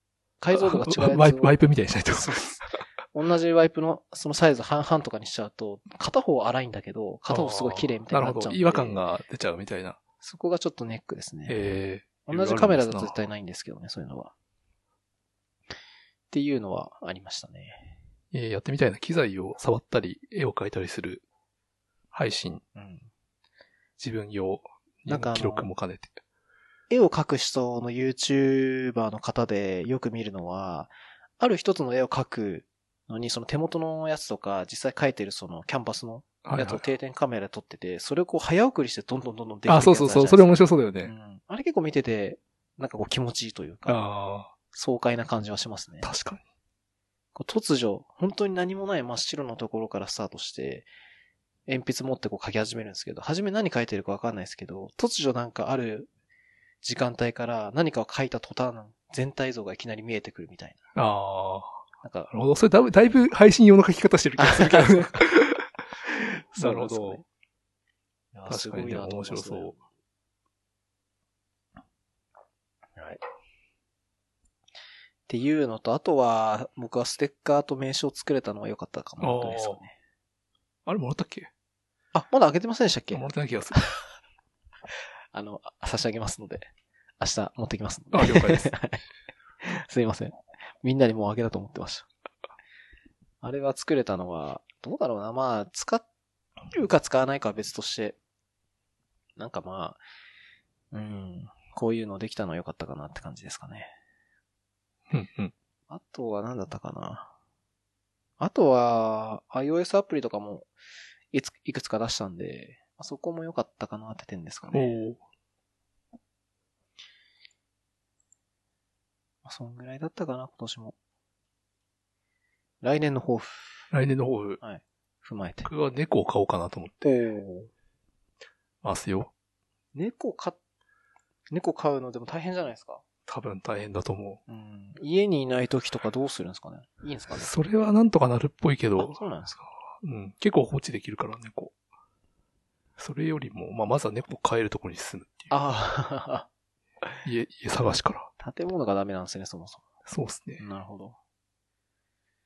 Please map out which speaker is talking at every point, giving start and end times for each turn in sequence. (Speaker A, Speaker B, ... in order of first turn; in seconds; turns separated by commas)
Speaker A: 0.4-1.6, Speaker B: 0.5-2.4, Speaker A: 2.1-9.0, Speaker B: 7.3-10.0, Speaker A: 10.2-11.6, Speaker B: 11.5-13.2, Speaker A: 12.2-14.3, Speaker A: 16.3-17.9, Speaker B: 18.3-21.2, Speaker B: 22.1-22.6, Speaker A: 22.7-23.1, Speaker B: 24.0-26.2, Speaker A: 25.1-25.7, Speaker A: 26.9-44.0, Speaker B: 36.4-36.8, Speaker B: 39.7-41.1, Speaker B: 43.9-44.5, Speaker A: 44.7-46.1, Speaker B: 46.0-46.4, Speaker A: 47.3-50.9, Speaker A: 51.7-56.1, Speaker A: 56.8-60.8, Speaker B: 60.9-65.7, Speaker A: 62.0-62.3, Speaker A: 64.4-65.3, Speaker B: 66.5-67.2, Speaker A: 66.5-67.2, Speaker A: 68.3-69.8, Speaker B: 68.5-69.7, Speaker A: 73.0-73.2, Speaker A: 75.3-79.9, Speaker B: 79.2-79.8, Speaker B: 80.8-81.5, Speaker A: 82.1-83.8, Speaker B: 83.1-83.8, Speaker A: 85.3-86.7, Speaker A: 87.2-89.0, Speaker B: 88.1-88.7, Speaker A: 89.6-92.1, Speaker A: 93.4-96.0, Speaker A: 96.7-98.2, Speaker A: 99.4-100.0, Speaker A: 100.9-103.9, Speaker B: 105.1-105.5, Speaker A: 105.9-107.3, Speaker A: 108.4-110.7, Speaker A: 111.3-115.0, Speaker B: 114.7-115.2, Speaker A: 119.4-120.9, Speaker A: 122.8-123.8, Speaker B: 123.9-124.6, Speaker A: 124.6-125.7, Speaker B: 125.6-127.0, Speaker A: 127.0-127.7, Speaker B: 128.8-129.3, Speaker A: 129.9-130.6, Speaker A: 131.5-133.0, Speaker B: 133.3-134.4, Speaker A: 134.5-137.5, Speaker B: 137.4-139.2, Speaker A: 139.0-139.6, Speaker B: 140.0-141.7, Speaker B: 143.0-145.5, Speaker A: 145.5-146.5, Speaker B: 147.2-148.3, Speaker A: 148.4-149.8, Speaker B: 150.1-150.6, Speaker A: 150.6-151.2